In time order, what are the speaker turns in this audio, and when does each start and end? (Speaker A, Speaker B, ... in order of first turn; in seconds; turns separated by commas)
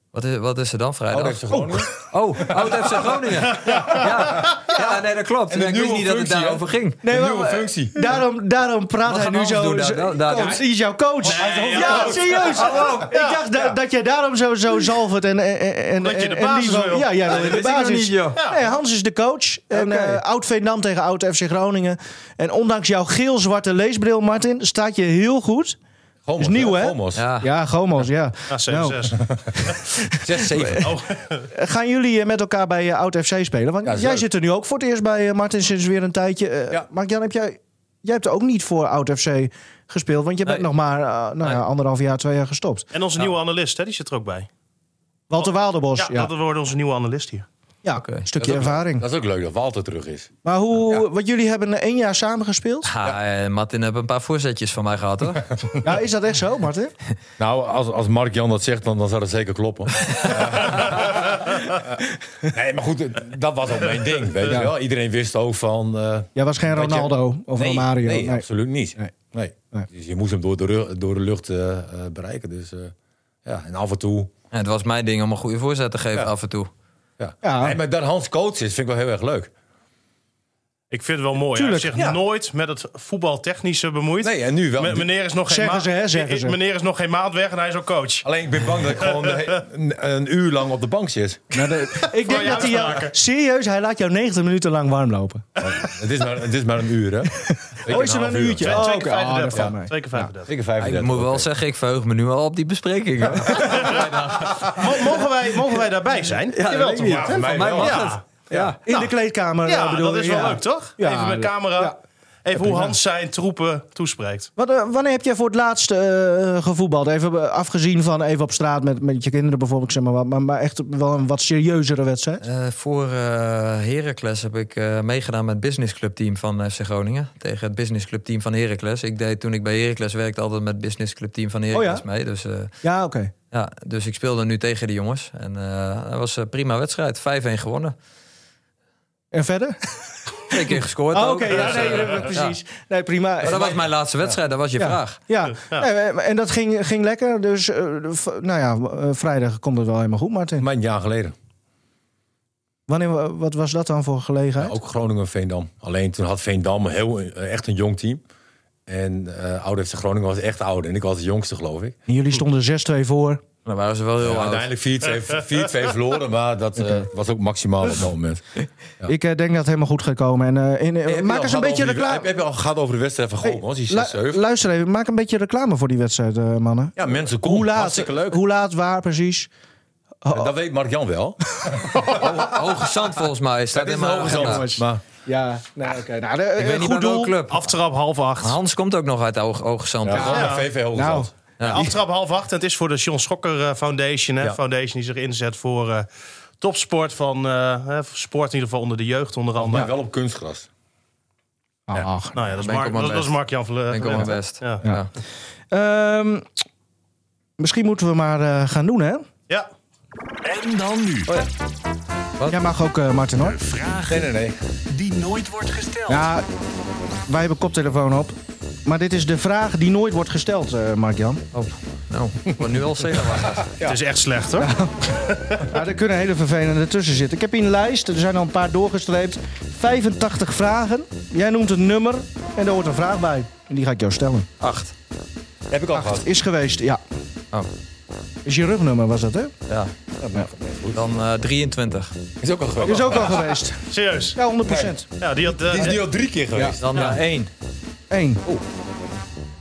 Speaker A: 0.1-1.4, Speaker B: 1.1-3.1, Speaker C: 1.5-1.9, Speaker A: 2.1-7.0, Speaker D: 3.6-4.4, Speaker B: 4.0-4.5, Speaker C: 4.7-5.0, Speaker B: 5.5-8.2, Speaker C: 7.0-25.8, Speaker A: 9.0-10.6, Speaker D: 11.2-13.8, Speaker B: 11.2-12.2, Speaker A: 12.0-13.1, Speaker D: 16.0-17.6, Speaker A: 17.2-18.4, Speaker D: 18.3-18.7, Speaker D: 19.7-20.0, Speaker A: 19.9-20.2, Speaker B: 26.2-27.2, Speaker C: 26.4-30.9, Speaker A: 27.1-27.5, Speaker D: 28.5-29.8, Speaker B: 30.2-30.9, Speaker D: 30.8-31.5, Speaker C: 31.5-42.9, Speaker B: 33.8-34.2, Speaker D: 42.9-44.5, Speaker C: 45.3-46.3, Speaker D: 45.4-47.5, Speaker C: 47.8-49.0, Speaker A: 47.9-48.3, Speaker B: 48.4-51.1, Speaker C: 50.4-52.9, Speaker A: 52.8-55.5, Speaker B: 55.5-55.8, Speaker C: 55.8-56.9, Speaker B: 57.4-62.0, Speaker A: 60.0-61.0, Speaker B: 62.5-72.9, Speaker C: 64.5-64.7, Speaker C: 66.3-68.4, Speaker B: 73.4-74.3, Speaker A: 74.5-76.7, Speaker B: 77.2-79.5, Speaker C: 77.4-77.8, Speaker D: 80.9-89.6, Speaker C: 81.5-81.9, Speaker B: 81.9-82.2, Speaker B: 84.2-85.1, Speaker C: 85.5-86.5, Speaker B: 88.2-91.5, Speaker C: 91.5-95.4, Speaker D: 92.0-93.1, Speaker B: 95.6-98.9, Speaker C: 97.4-100.3, Speaker D: 98.6-100.5, Speaker B: 99.5-99.8, Speaker B: 100.4-101.5, Speaker A: 100.8-104.7, Speaker B: 103.2-104.9, Speaker C: 103.5-104.0, Speaker D: 103.7-104.0, Speaker D: 104.7-108.2, Speaker A: 106.5-108.8, Speaker C: 106.7-107.3, Speaker B: 107.0-108.7, Speaker C: 108.8-112.0, Speaker D: 108.9-114.5, Speaker C: 112.5-113.0, Speaker C: 114.6-122.4, Speaker A: 122.4-132.7, Speaker C: 131.7-132.0, Speaker C: 132.8-133.3, Speaker A: 133.5-137.9, Speaker C: 139.3-140.4, Speaker A: 140.5-142.6, Speaker C: 141.1-143.8, Speaker A: 143.4-145.2, Speaker C: 144.8-150.7, Speaker D: 145.5-145.9, Speaker B: 150.6-151.3, Speaker C: 152.9-154.8, Speaker B: 154.6-158.2, Speaker B: 158.9-161.9, Speaker C: 162.1-163.4, Speaker A: 163.6-164.7, Speaker B: 164.2-168.4, Speaker C: 169.1-172.3, Speaker B: 171.0-174.4, Speaker C: 173.4-179.5, Speaker B: 177.0-178.4, Speaker C: 180.2-180.5, Speaker B: 180.3-182.4, Speaker C: 181.6-182.3, Speaker A: 182.1-184.6, Speaker B: 183.7-185.0, Speaker C: 184.2-187.3, Speaker A: 186.6-187.7, Speaker D: 187.5-188.6, Speaker A: 188.4-190.5, Speaker B: 190.0-191.9, Speaker C: 190.1-191.3, Speaker D: 190.2-190.7, Speaker D: 191.6-196.1, Speaker D: 196.6-199.9, Speaker B: 199.6-200.7, Speaker C: 201.9-202.3, Speaker D: 202.3-204.8, Speaker A: 202.4-203.4, Speaker A: 203.9-205.1, Speaker C: 205.7-206.5, Speaker C: 207.6-209.2, Speaker E: 210.4-211.5, Speaker C: 212.5-213.6, Speaker E: 213.4-214.2, Speaker B: 214.1-214.6, Speaker E: 214.9-216.3, Speaker C: 216.1-216.4, Speaker C: 217.3-221.4, Speaker A: 221.5-223.7, Speaker B: 223.4-224.0, Speaker D: 223.8-225.7, Speaker C: 224.6-234.5, Speaker A: 234.6-234.9, Speaker B: 235.7-236.3, Speaker C: 235.9-237.0, Speaker C: 238.4-239.5, Speaker A: 239.7-239.9, Speaker B: 240.2-241.0, Speaker A: 240.9-242.1, Speaker B: 242.4-243.5, Speaker D: 242.8-244.4, Speaker C: 242.8-245.1, Speaker B: 244.6-244.9, Speaker D: 245.2-246.0, Speaker B: 245.6-247.2, Speaker C: 246.5-246.8, Speaker A: 246.8-247.5, Speaker C: 248.1-248.4